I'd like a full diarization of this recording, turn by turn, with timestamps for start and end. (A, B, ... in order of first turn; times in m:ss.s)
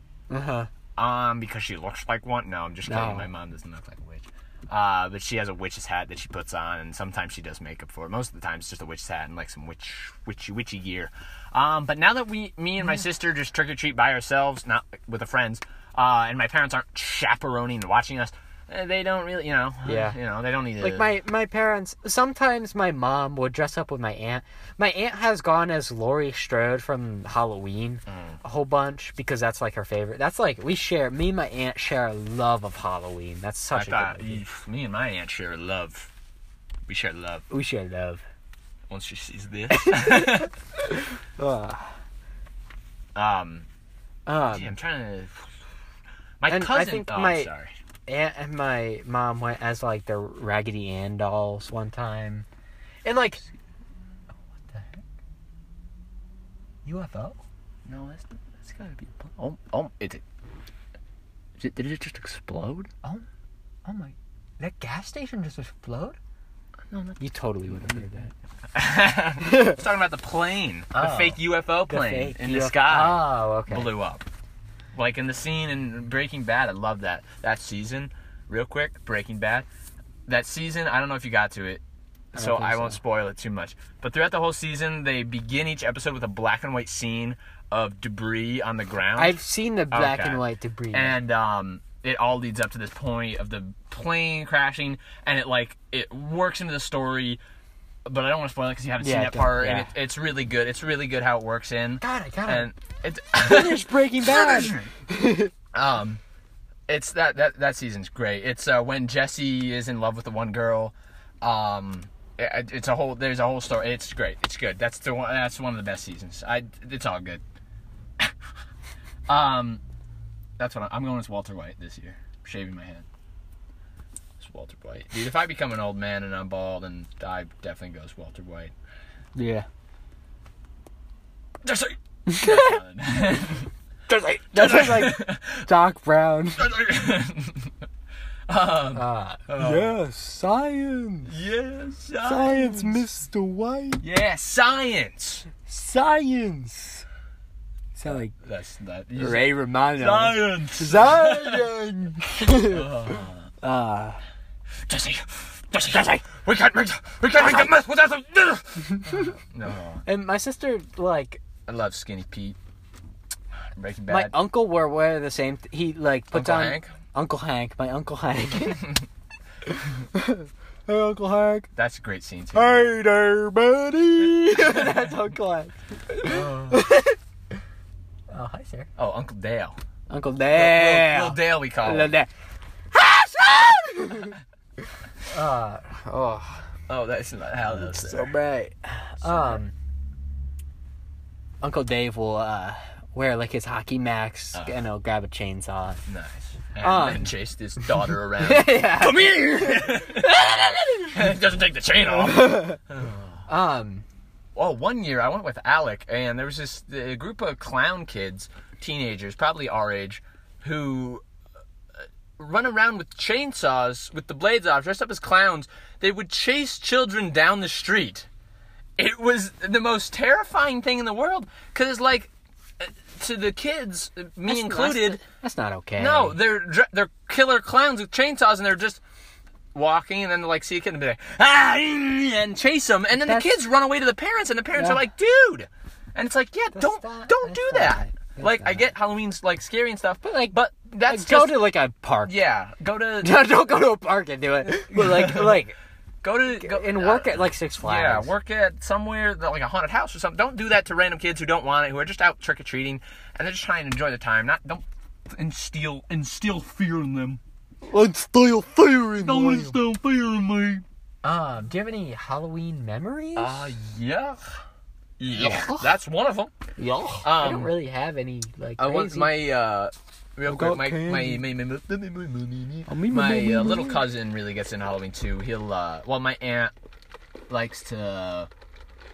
0:00.3-0:00.7 A
0:01.0-0:21.1 B
0:02.9-0:03.3 A
0:19.8-0:20.2 A
0:20.8-0:34.4 A
0:28.1-0:28.4 B
0:33.7-0:36.1 B
0:36.9-0:37.4 B
0:37.5-0:38.2 A
0:38.9-0:40.5 B
0:39.7-0:42.0 A
0:43.2-0:43.7 B
0:44.3-0:44.8 A
0:44.5-0:45.5 B
0:46.4-0:47.7 B
0:46.5-0:47.5 A
0:48.1-0:52.5 A
0:53.0-0:53.4 A
0:54.7-0:55.0 A
0:56.8-0:57.4 A
0:57.9-1:00.2 B
1:01.6-1:02.9 B
1:03.8-1:06.2 A
1:06.9-1:08.0 B
1:07.2-1:08.3 A
1:08.7-1:14.2 B
1:09.4-1:09.8 A
1:10.9-1:13.9 A
1:14.9-1:19.7 B
1:20.3-1:21.8 B
1:22.3-1:23.0 A
1:22.3-1:29.4 B
1:29.2-1:31.2 A
1:29.9-1:37.4 B
1:38.1-1:44.9 B
1:39.0-1:39.9 A
1:42.0-1:42.7 A
1:43.4-1:45.5 A
1:45.7-1:46.2 B
1:46.9-1:57.4 B
1:59.3-1:59.8 B
2:00.6-2:03.1 B
2:04.4-2:08.7 B
2:09.4-2:09.7 A
2:11.6-2:13.7 B
2:12.3-2:12.8 A
2:14.1-2:16.7 A
2:14.5-2:15.7 B
2:16.6-2:17.7 B
2:18.5-2:20.0 B
2:18.9-2:21.3 A
2:21.3-2:23.0 B
2:22.2-2:24.0 A
2:24.0-2:25.5 B
2:25.7-2:27.0 A
2:28.0-2:28.3 A
2:28.1-2:31.7 B
2:29.2-2:34.2 A
2:32.6-2:33.5 B
2:34.9-2:40.0 B
2:38.8-2:39.3 A
2:40.1-2:41.4 A
2:41.7-2:42.6 B
2:43.8-2:44.4 B
2:44.1-2:48.9 A
2:46.3-2:46.9 B
2:49.7-2:51.7 A
2:51.8-2:52.8 B
2:52.5-2:57.2 A
2:54.5-2:55.1 B
2:56.2-2:56.8 B
2:58.3-2:58.9 A
2:59.0-2:59.8 B
3:00.1-3:02.3 A
3:00.5-3:02.1 B
3:02.9-3:04.4 A
3:05.3-3:06.6 A
3:06.9-3:08.3 B
3:07.7-3:09.7 A
3:09.2-3:09.6 B
3:11.6-3:16.0 A
3:14.5-3:14.8 B
3:16.1-3:23.4 B
3:16.8-3:17.3 A
3:18.4-3:21.3 A
3:22.0-3:22.8 A
3:23.5-3:24.0 A
3:24.6-3:31.2 B
3:32.0-3:38.3 B
3:39.0-3:45.2 B
3:44.5-3:46.4 A
3:46.0-3:49.0 B
3:49.7-4:01.7 B
3:53.2-3:53.6 A
3:56.8-3:58.8 A
4:00.2-4:02.3 A
4:02.3-4:03.4 B
4:03.2-4:05.8 A
4:04.7-4:05.6 B
4:06.2-4:17.4 B
4:06.6-4:08.3 A
4:17.9-4:19.8 A
4:19.2-4:20.8 B
4:21.2-4:23.7 A
4:23.4-4:24.4 B
4:25.2-4:26.5 B
4:25.3-4:25.9 A
4:26.8-4:29.4 A
4:27.2-4:27.7 B
4:28.8-4:36.7 B
4:30.5-4:31.4 A
4:32.9-4:34.0 A
4:37.5-4:38.5 B